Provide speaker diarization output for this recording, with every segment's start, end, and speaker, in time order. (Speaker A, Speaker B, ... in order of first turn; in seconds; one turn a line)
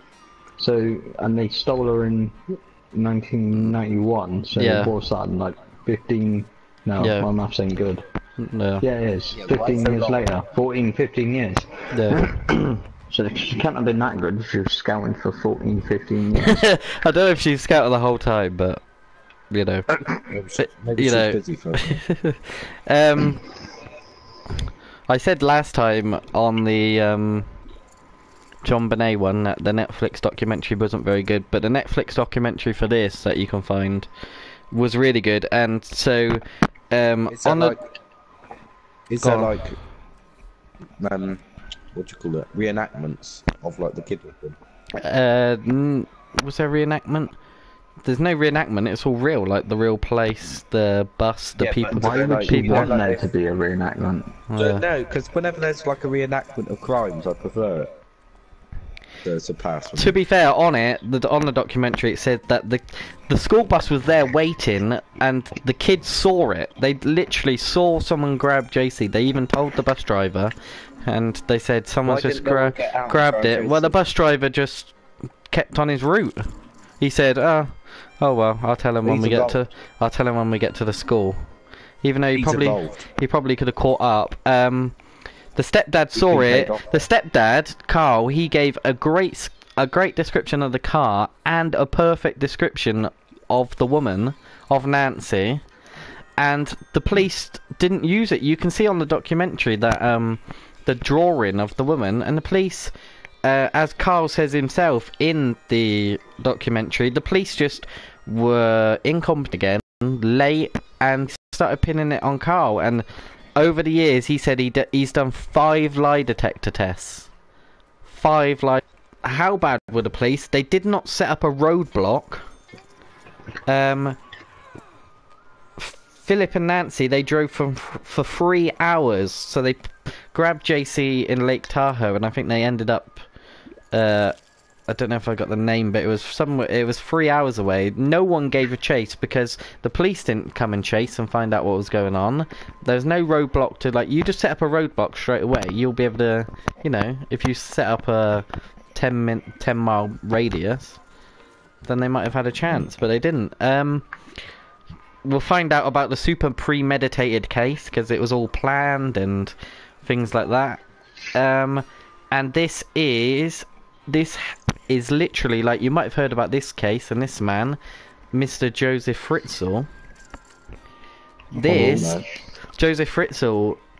Speaker A: 0.6-8.0
Speaker B: 4.6-4.9
Speaker B: 7.0-7.3
Speaker B: 8.4-8.8
Speaker A: 8.8-16.6
Speaker C: 9.3-10.3
Speaker B: 11.9-12.2
Speaker B: 16.4-18.8
Speaker B: 19.5-19.9
Speaker C: 20.3-22.0
Speaker B: 20.6-23.4
Speaker B: 25.1-27.5
Speaker B: 28.6-34.1
Speaker B: 34.7-37.7
Speaker C: 37.3-37.8
Speaker C: 39.1-39.8
Speaker B: 39.2-39.5
Speaker C: 41.0-41.4
Speaker C: 41.9-44.6
Speaker B: 45.0-47.3
Speaker B: 48.0-52.9
Speaker C: 51.6-53.2
Speaker A: 51.9-54.4
Speaker B: 54.5-54.8
Speaker C: 54.5-57.9
Speaker C: 59.2-60.1
Speaker B: 60.0-70.5
Speaker B: 71.0-74.9
Speaker C: 72.0-74.0
Speaker B: 75.5-76.4
Speaker B: 77.0-81.4
Speaker C: 79.0-79.6
Speaker B: 82.0-85.0
Speaker C: 82.3-83.0
Speaker B: 85.5-95.6
Speaker C: 86.1-87.0
Speaker B: 96.4-102.9
Speaker B: 103.4-117.3
Speaker B: 118.0-122.4
Speaker B: 123.7-124.2
Speaker B: 125.8-133.2
Speaker B: 133.9-134.3
Speaker B: 134.9-151.0
Speaker B: 151.8-154.0
Speaker B: 155.2-160.8
Speaker B: 161.3-167.8
Speaker B: 168.3-169.9
Speaker A: 171.6-172.4
Speaker B: 171.6-172.2
Speaker C: 171.7-172.2
Speaker B: 172.8-173.8